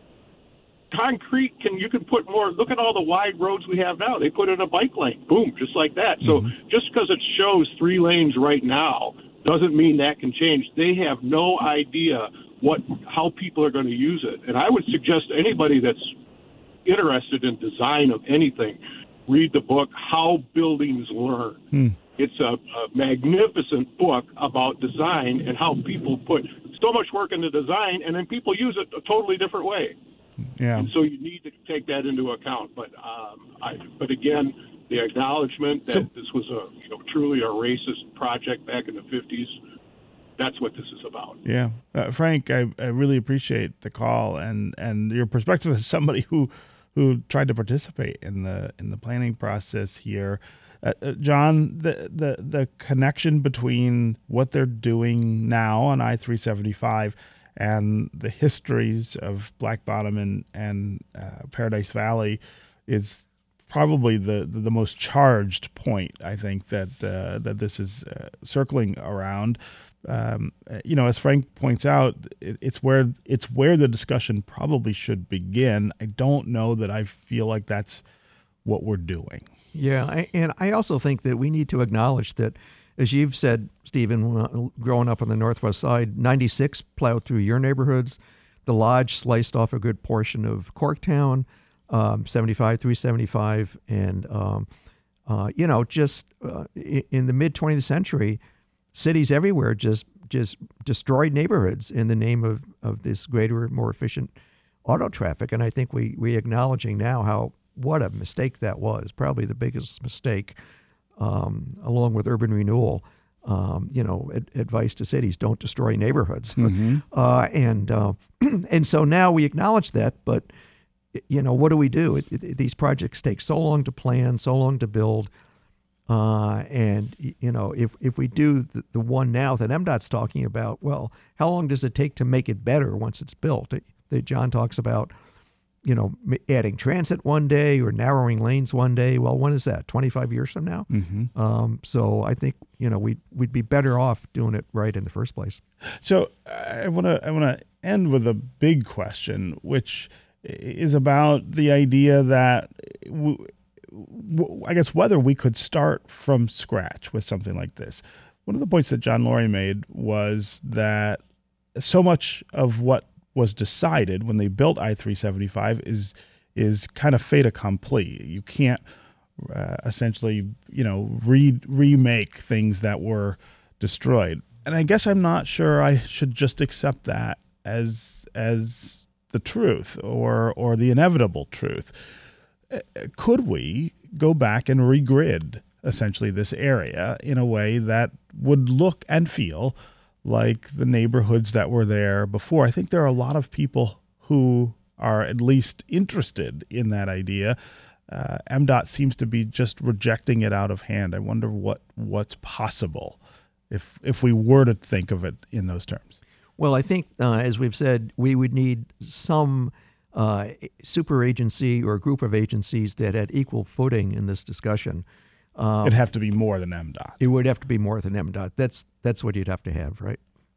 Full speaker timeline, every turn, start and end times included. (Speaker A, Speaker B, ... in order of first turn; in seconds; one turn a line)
Speaker A: 0.9-16.1
Speaker B: 6.2-6.5
Speaker A: 16.9-21.6
Speaker A: 22.2-30.0
Speaker B: 30.6-30.9
Speaker A: 30.8-39.6
Speaker A: 40.4-41.4
Speaker B: 41.5-78.0
Speaker B: 78.7-79.5
Speaker C: 79.7-94.7
Speaker C: 95.3-98.4
Speaker C: 98.9-104.3
Speaker C: 104.8-110.6
Speaker C: 111.2-120.5
Speaker B: 116.6-117.0
Speaker C: 121.1-125.3
Speaker C: 126.1-135.1
Speaker C: 135.8-145.6
Speaker B: 140.9-141.3
Speaker B: 146.0-161.2
Speaker B: 161.8-168.8
Speaker B: 169.4-197.6
Speaker B: 198.1-203.2
Speaker B: 203.7-206.2
Speaker C: 206.6-215.0
Speaker C: 215.6-216.0
Speaker B: 215.8-217.2
Speaker C: 217.2-220.2